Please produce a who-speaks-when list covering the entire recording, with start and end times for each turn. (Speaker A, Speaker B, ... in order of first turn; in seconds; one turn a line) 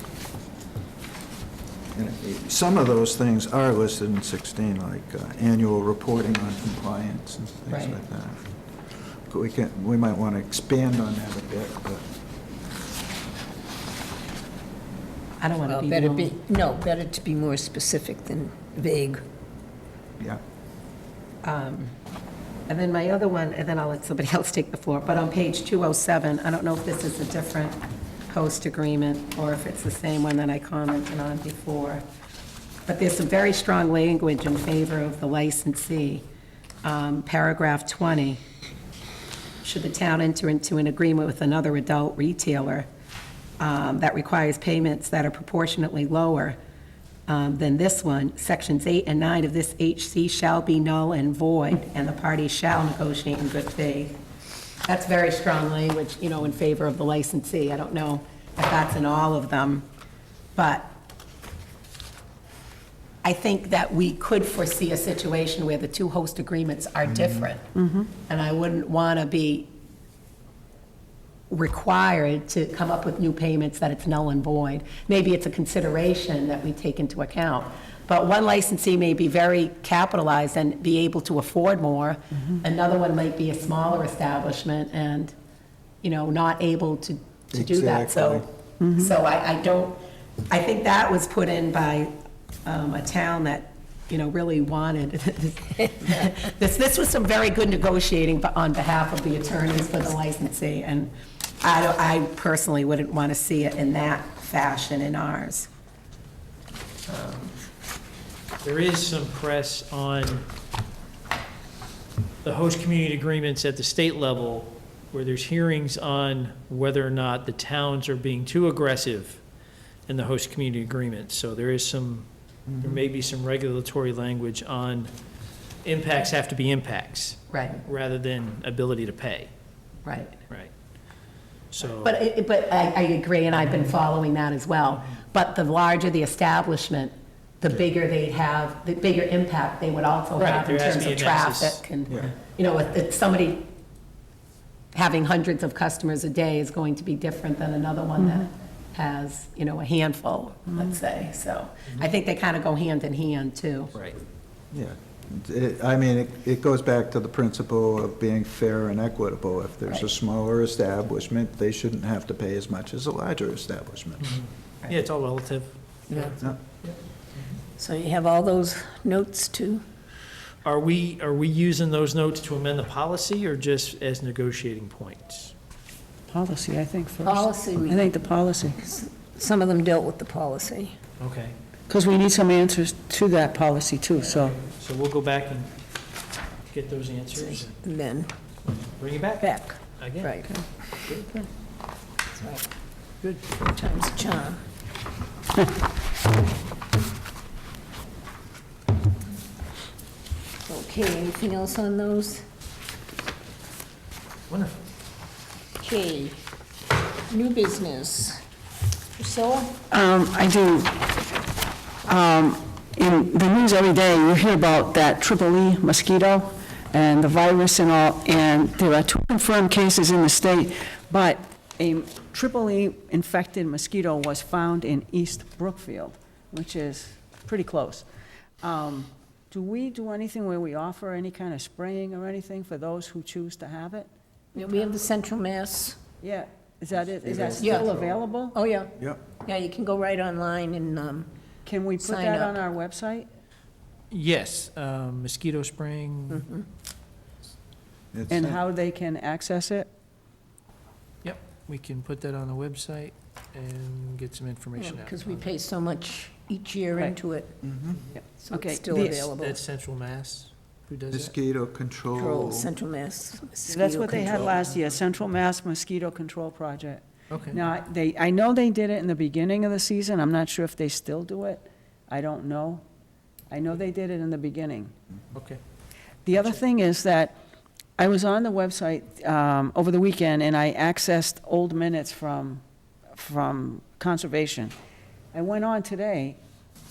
Speaker A: 1.9-12.1
Speaker B: 7.7-8.0
Speaker B: 15.4-16.3
Speaker C: 15.7-19.2
Speaker B: 21.4-21.9
Speaker B: 22.7-27.8
Speaker B: 28.3-32.0
Speaker B: 32.9-36.2
Speaker B: 36.8-38.4
Speaker B: 39.6-42.9
Speaker B: 43.6-46.6
Speaker B: 47.3-54.2
Speaker B: 54.9-59.9
Speaker B: 60.5-60.9
Speaker B: 63.2-67.7
Speaker D: 67.7-68.1
Speaker B: 68.3-69.7
Speaker B: 71.5-85.3
Speaker B: 86.0-92.1
Speaker A: 87.5-88.4
Speaker D: 88.8-89.1
Speaker B: 92.6-105.7
Speaker B: 107.1-107.5
Speaker E: 108.6-110.4
Speaker E: 112.4-119.4
Speaker E: 120.1-122.3
Speaker A: 122.7-122.9
Speaker E: 122.8-125.1
Speaker E: 125.8-129.5
Speaker B: 127.5-127.8
Speaker B: 130.0-130.3
Speaker E: 131.7-132.1
Speaker B: 132.0-143.7
Speaker E: 140.4-141.8
Speaker B: 144.9-153.9
Speaker D: 148.2-148.4
Speaker A: 154.7-164.4
Speaker E: 164.2-167.5
Speaker C: 167.8-169.8
Speaker E: 170.6-175.5
Speaker D: 176.3-178.9
Speaker C: 177.2-178.1
Speaker C: 178.9-181.0
Speaker E: 181.2-181.5
Speaker D: 181.9-184.6
Speaker E: 184.2-185.7
Speaker E: 186.7-187.7
Speaker C: 187.3-188.3
Speaker E: 189.0-190.4
Speaker C: 189.4-190.5
Speaker D: 190.4-191.5
Speaker C: 192.3-192.7
Speaker C: 193.3-194.6
Speaker C: 200.7-202.4
Speaker E: 204.5-204.7
Speaker C: 205.8-206.4
Speaker C: 207.3-208.4
Speaker C: 209.2-209.8
Speaker D: 209.9-211.1
Speaker D: 212.1-228.1
Speaker D: 228.6-234.1
Speaker C: 234.5-236.0
Speaker D: 236.2-238.6
Speaker A: 237.2-238.2
Speaker C: 237.6-237.9
Speaker C: 238.5-241.3
Speaker D: 241.6-243.3
Speaker C: 242.0-242.6
Speaker E: 244.1-246.5
Speaker C: 246.3-246.7
Speaker A: 248.1-248.6
Speaker D: 248.3-249.9
Speaker E: 251.2-255.5
Speaker C: 254.8-257.6
Speaker A: 257.6-258.0
Speaker D: 258.1-259.3
Speaker C: 258.4-259.6
Speaker E: 259.4-261.3
Speaker A: 261.1-262.7
Speaker C: 262.1-264.6
Speaker D: 263.7-272.8
Speaker E: 267.3-267.6
Speaker D: 273.5-274.9
Speaker E: 275.3-275.6
Speaker D: 276.2-277.4
Speaker D: 278.0-284.7
Speaker D: 285.3-286.4